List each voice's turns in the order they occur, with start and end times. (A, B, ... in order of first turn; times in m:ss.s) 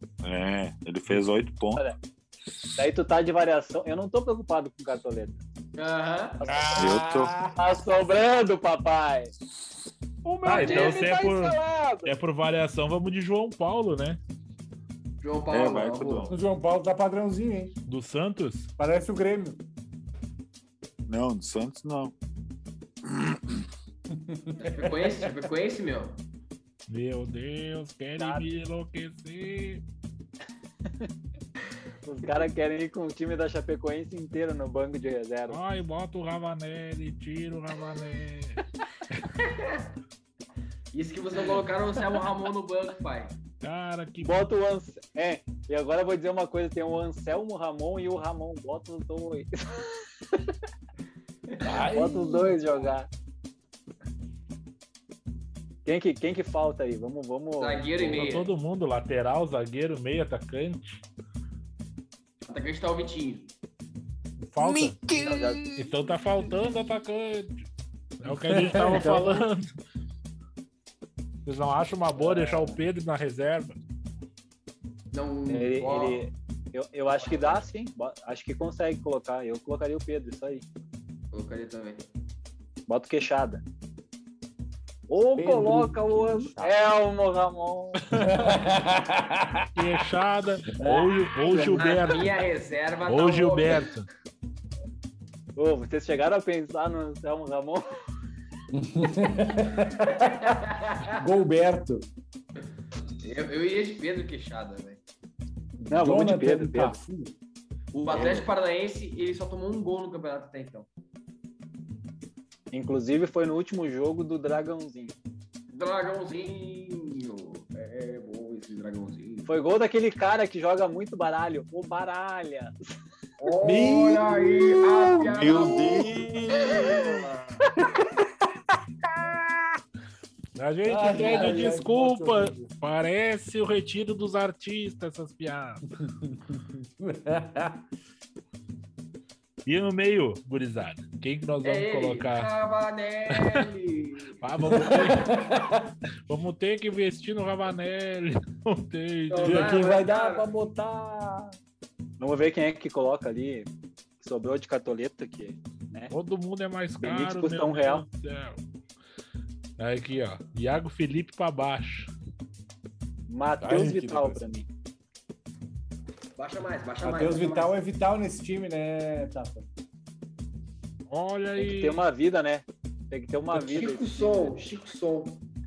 0:00.2-0:01.8 A
0:02.8-0:05.4 B
0:05.8-0:06.4 C
0:06.4-0:07.6 D
0:06.8-0:07.4 A
0:07.6-0:09.3 B
0:10.2-0:12.1 B
0:10.4-0:14.2 E
0:10.5-0:11.0 C
0:15.2-0:16.3 C
0:15.5-0:16.3 A
0:16.3-0:17.7 D
0:17.9-0:18.7 E
0:18.8-0:19.6 D
0:21.1-0:22.1 A
0:23.0-0:23.7 A
0:24.1-0:25.3 D
0:24.6-0:26.2 C
0:26.9-0:29.8 E
0:28.2-0:28.5 B
0:32.0-0:35.6 B
0:35.5-0:39.3 E
0:39.4-0:39.8 C
0:40.9-0:43.4 C
0:43.6-0:44.5 E
0:44.2-0:50.4 B
0:51.5-0:51.8 C
0:51.6-0:52.8 D
0:51.9-0:53.1 B
0:55.8-0:58.4 B
0:57.6-0:58.5 C
0:58.0-1:01.0 E
1:02.4-1:03.5 C
1:04.5-1:05.0 E
1:04.9-1:05.9 A
1:05.1-1:05.6 B
1:05.8-1:07.6 E
1:08.2-1:09.7 E
1:08.3-1:09.4 D
1:11.5-1:13.8 E
1:15.1-1:16.2 C
1:15.5-1:20.6 B
1:17.2-1:17.7 C
1:21.3-1:22.1 C
1:22.9-1:23.6 B
1:25.1-1:28.0 B
1:25.4-1:26.8 D
1:28.1-1:28.5 E
1:28.2-1:29.7 D
1:29.8-1:32.4 E
1:30.7-1:31.7 D
1:31.5-1:33.9 C
1:33.1-1:34.1 E
1:35.6-1:37.8 B
1:38.7-1:42.1 D
1:40.2-1:41.1 C
1:43.2-1:45.0 C
1:45.8-1:47.3 D
1:45.9-1:47.0 B
1:47.9-1:50.9 C
1:48.1-1:48.5 D
1:52.7-1:55.2 B
1:55.7-1:59.5 C
1:59.4-2:02.7 B
2:03.4-2:07.6 C
2:03.6-2:06.1 D
2:05.2-2:07.3 A
2:09.2-2:09.6 D
2:10.6-2:15.9 E
2:10.8-2:12.7 D
2:16.0-2:17.8 D
2:19.7-2:22.5 E
2:21.6-2:25.2 C
2:23.4-2:23.7 E
2:24.4-2:25.4 E
2:24.7-2:25.9 D
2:26.3-2:29.9 E
2:29.3-2:30.5 C
2:29.4-2:31.6 D
2:32.2-2:33.7 B
2:34.2-2:36.1 B
2:36.1-2:38.6 E
2:37.0-2:38.0 B
2:39.8-2:42.1 E
2:43.3-2:44.7 B
2:43.6-2:44.5 D
2:46.4-2:47.7 C
2:47.0-2:49.7 D
2:51.1-2:52.0 E
2:51.6-2:54.6 B
2:53.6-2:55.4 C